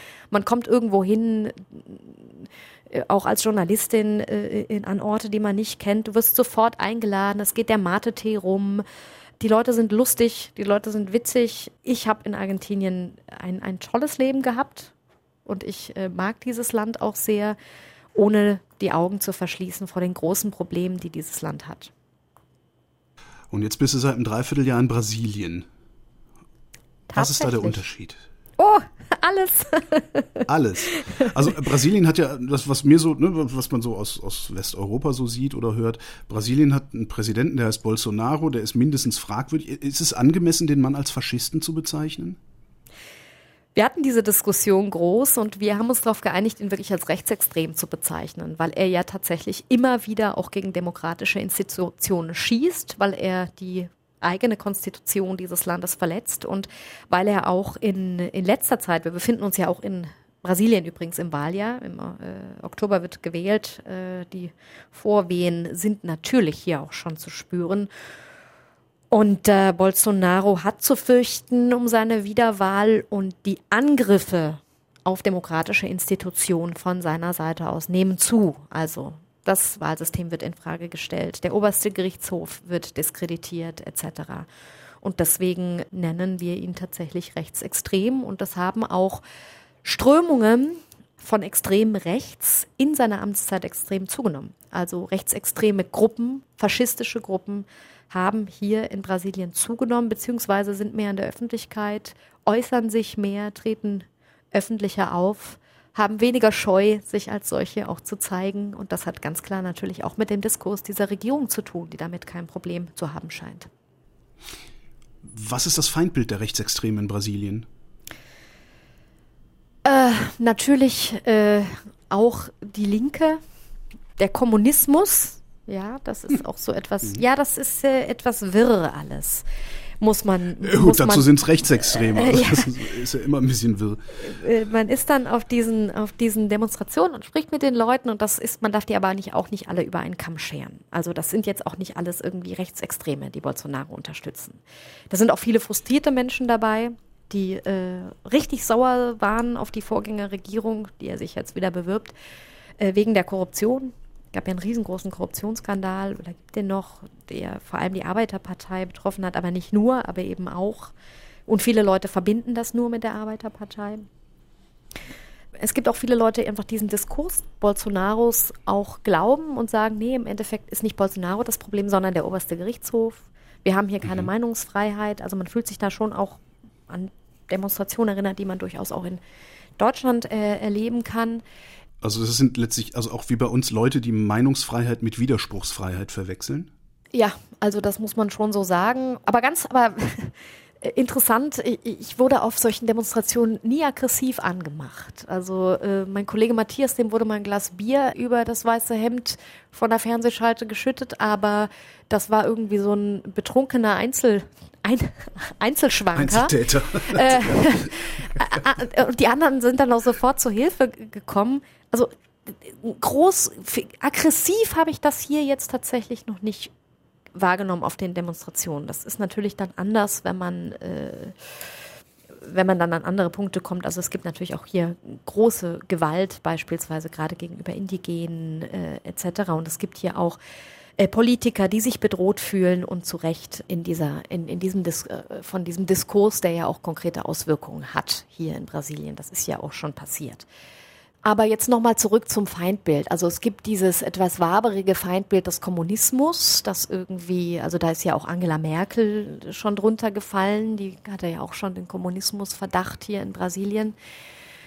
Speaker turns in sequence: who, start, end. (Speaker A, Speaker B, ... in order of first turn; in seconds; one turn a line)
Speaker A: 0.3-8.8
Speaker A: 9.4-14.9
Speaker A: 15.5-17.6
Speaker A: 18.1-21.9
Speaker B: 23.5-25.7
Speaker A: 27.1-27.8
Speaker B: 27.1-28.2
Speaker A: 28.6-31.3
Speaker B: 30.5-42.4
Speaker A: 43.8-67.9
Speaker A: 69.1-84.5
Speaker A: 85.0-89.2
Speaker A: 89.8-113.7
Speaker B: 115.2-117.7
Speaker A: 119.8-123.4
Speaker A: 124.2-129.4
Speaker A: 130.0-132.7
Speaker B: 130.6-134.0
Speaker A: 134.2-152.1
Speaker A: 152.8-160.9
Speaker A: 161.5-164.1
Speaker A: 165.6-179.2
Speaker A: 179.8-181.4
Speaker B: 182.0-186.7
Speaker A: 187.1-216.7
Speaker B: 206.1-208.6
Speaker A: 217.3-221.4
Speaker A: 222.4-230.4
Speaker A: 231.0-240.5
Speaker A: 241.2-253.9